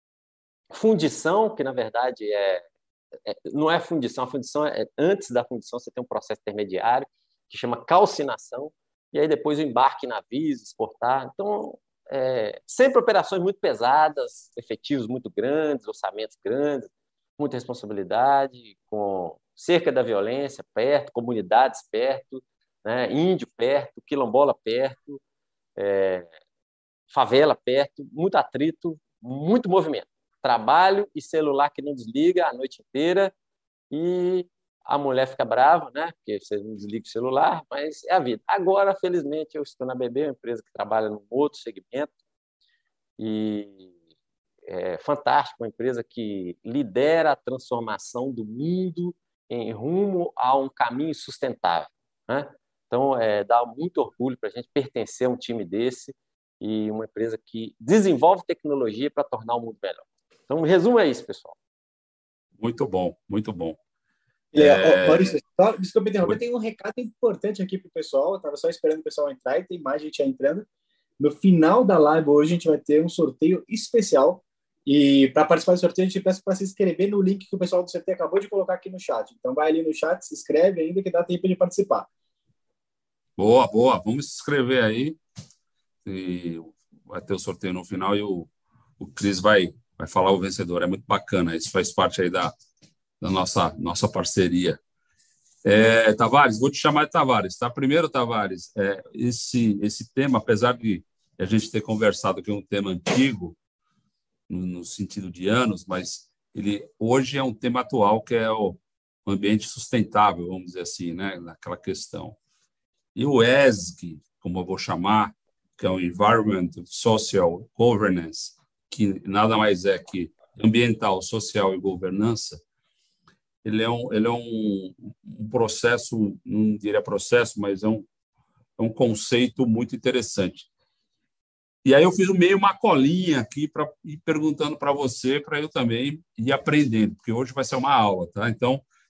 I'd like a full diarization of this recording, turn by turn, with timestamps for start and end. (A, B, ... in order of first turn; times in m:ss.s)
0:00.7-0:02.6 A
0:03.2-0:25.2 A
0:25.8-0:26.3 A
0:27.1-0:33.3 A
0:33.9-0:42.1 A
0:43.2-0:43.9 A
0:44.6-1:01.6 A
1:02.6-1:03.8 B
1:04.5-1:10.6 C
1:04.6-1:05.4 B
1:11.2-1:22.1 C
1:23.4-1:25.2 B
1:26.0-1:32.5 B
1:33.2-1:34.8 B
1:35.6-1:43.6 B
1:44.5-1:52.4 B
1:53.1-2:02.6 B
2:03.6-2:08.0 B
2:08.8-2:10.7 B
2:11.8-2:18.8 B